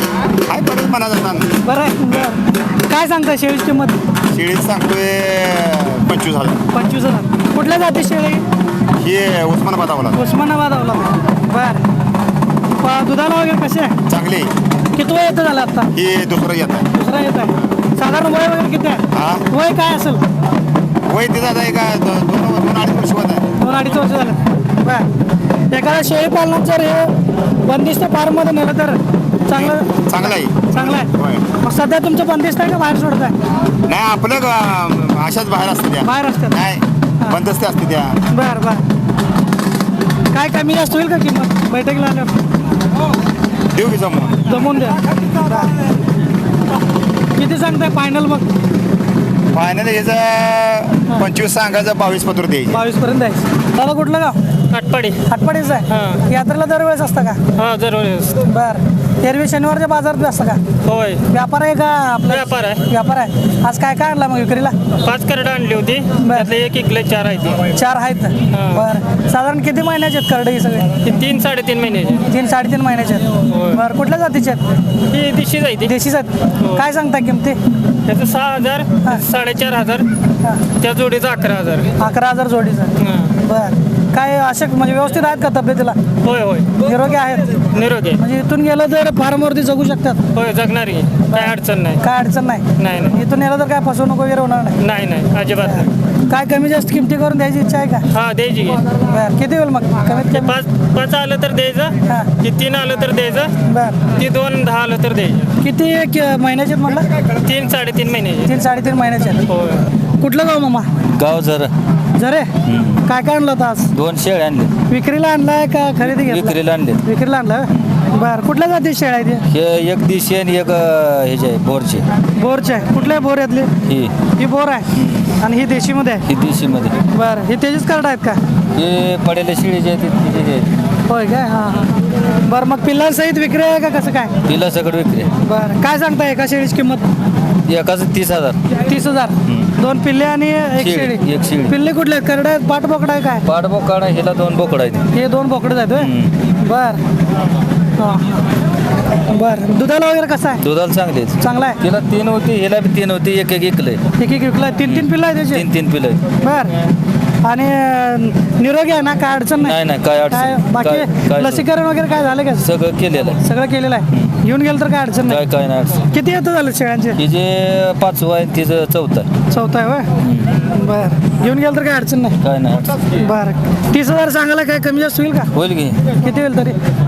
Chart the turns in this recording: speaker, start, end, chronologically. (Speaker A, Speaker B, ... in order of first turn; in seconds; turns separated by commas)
Speaker A: 0.5-1.6, Speaker B: 1.6-4.0, Speaker A: 4.3-6.6, Speaker B: 6.7-8.4, Speaker A: 9.0-10.2, Speaker B: 10.1-11.8, Speaker B: 12.8-13.9, Speaker A: 14.1-14.5, Speaker B: 14.9-15.9, Speaker A: 15.9-16.8, Speaker B: 16.9-20.2, Speaker A: 19.1-19.4, Speaker A: 21.1-23.9, Speaker B: 23.6-25.1, Speaker B: 25.7-31.1, Speaker A: 29.5-31.4, Speaker B: 31.6-33.3, Speaker A: 33.9-38.2, Speaker B: 36.0-36.6, Speaker B: 38.3-38.8, Speaker B: 40.3-42.4, Speaker A: 43.7-44.4, Speaker B: 44.5-45.7, Speaker B: 47.4-48.5, Speaker A: 49.5-52.8, Speaker B: 52.7-54.4, Speaker C: 54.7-55.2, Speaker B: 55.3-57.4, Speaker C: 55.9-56.2, Speaker C: 57.6-58.4, Speaker B: 58.4-60.6, Speaker C: 60.8-61.2, Speaker B: 61.3-64.8, Speaker C: 62.3-62.8, Speaker C: 65.0-67.6, Speaker B: 66.2-66.5, Speaker B: 67.7-70.9, Speaker C: 68.5-68.9, Speaker C: 71.0-72.2, Speaker B: 72.3-74.6, Speaker C: 73.5-73.8, Speaker C: 75.1-75.9, Speaker B: 75.8-77.6, Speaker C: 78.0-80.1, Speaker C: 80.8-81.9, Speaker B: 82.0-86.0, Speaker C: 83.0-83.3, Speaker C: 86.2-86.7, Speaker B: 86.8-90.2, Speaker C: 87.7-88.2, Speaker C: 90.3-92.0, Speaker B: 91.3-94.8, Speaker C: 92.8-93.2, Speaker C: 94.8-95.9, Speaker B: 95.7-98.1, Speaker C: 98.1-98.8, Speaker B: 99.0-100.5, Speaker C: 100.3-103.5, Speaker B: 103.6-104.0, Speaker C: 104.1-105.5, Speaker B: 105.6-107.1, Speaker C: 107.4-108.6, Speaker B: 108.4-109.4, Speaker C: 109.5-109.8, Speaker B: 110.2-110.9, Speaker D: 111.1-111.7, Speaker B: 112.1-112.5, Speaker D: 112.7-113.0, Speaker B: 113.0-113.9, Speaker D: 113.9-114.7, Speaker B: 114.9-119.4, Speaker D: 116.0-117.0, Speaker D: 119.5-122.0, Speaker B: 122.3-123.7, Speaker D: 123.8-124.1, Speaker B: 124.4-124.8, Speaker D: 125.0-125.2, Speaker B: 125.4-126.2, Speaker D: 126.3-126.9, Speaker B: 127.1-128.4, Speaker D: 128.8-130.7, Speaker B: 131.1-131.9, Speaker B: 132.4-134.3, Speaker D: 134.5-135.3, Speaker B: 135.4-137.1, Speaker D: 137.7-138.6, Speaker B: 138.8-143.4, Speaker D: 140.8-141.7, Speaker D: 143.5-145.0, Speaker B: 145.1-147.0, Speaker D: 146.0-146.3, Speaker B: 148.0-148.4, Speaker B: 149.3-150.6, Speaker D: 150.6-154.0, Speaker B: 151.4-151.8, Speaker B: 154.2-155.6, Speaker D: 154.8-156.2, Speaker B: 156.4-156.7, Speaker B: 157.4-162.7, Speaker D: 159.6-161.7, Speaker D: 162.6-163.4, Speaker B: 163.4-165.4, Speaker D: 165.3-166.0, Speaker B: 166.1-167.2, Speaker D: 167.2-169.3, Speaker B: 169.5-170.1, Speaker D: 170.2-170.6, Speaker B: 170.7-172.3, Speaker D: 172.4-173.2, Speaker B: 173.2-175.5, Speaker D: 175.5-176.0, Speaker B: 176.2-176.8